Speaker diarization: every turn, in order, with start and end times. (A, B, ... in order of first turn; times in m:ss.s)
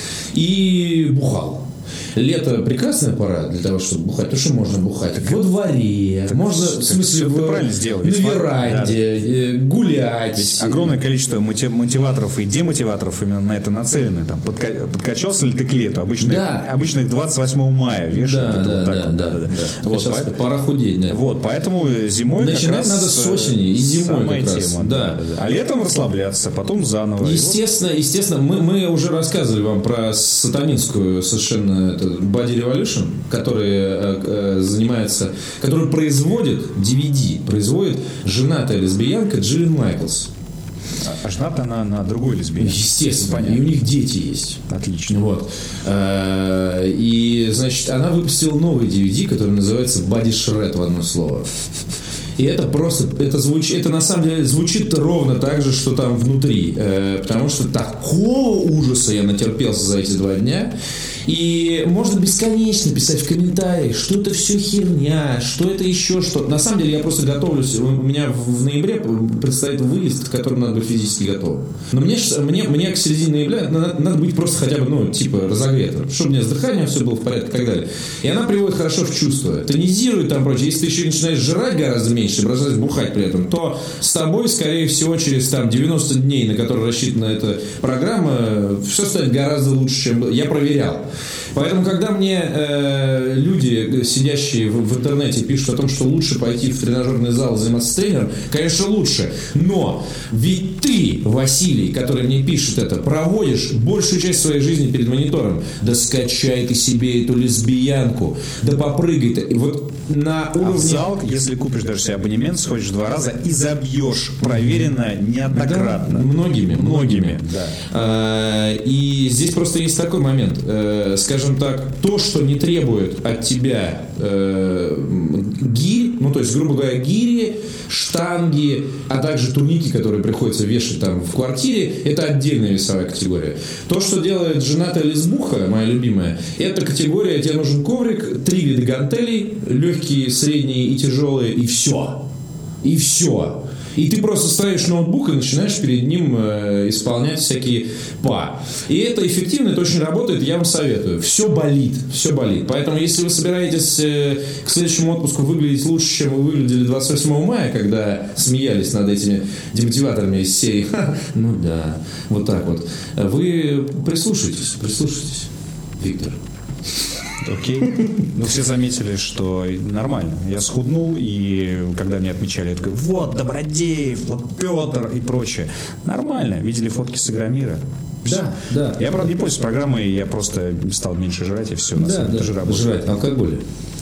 0:00.3-0:01.6 A
0:02.1-0:11.0 A
0:05.1-0:05.4 B
0:06.3-0:09.0 B
0:10.4-0:20.4 B
0:16.2-0:16.7 A
0:18.1-0:21.2 A
0:21.1-0:27.6 B
0:22.3-0:25.2 A
0:27.2-0:40.3 A
0:41.0-0:43.7 B
0:42.6-0:51.5 A
0:44.7-0:45.2 B
0:52.4-1:00.7 A
1:01.3-1:51.1 A
1:50.6-1:57.7 B
1:55.5-2:22.2 A
2:22.8-2:46.4 A
2:47.4-2:58.5 B
2:58.2-2:59.2 A
2:59.0-3:03.0 B
3:02.0-3:03.6 A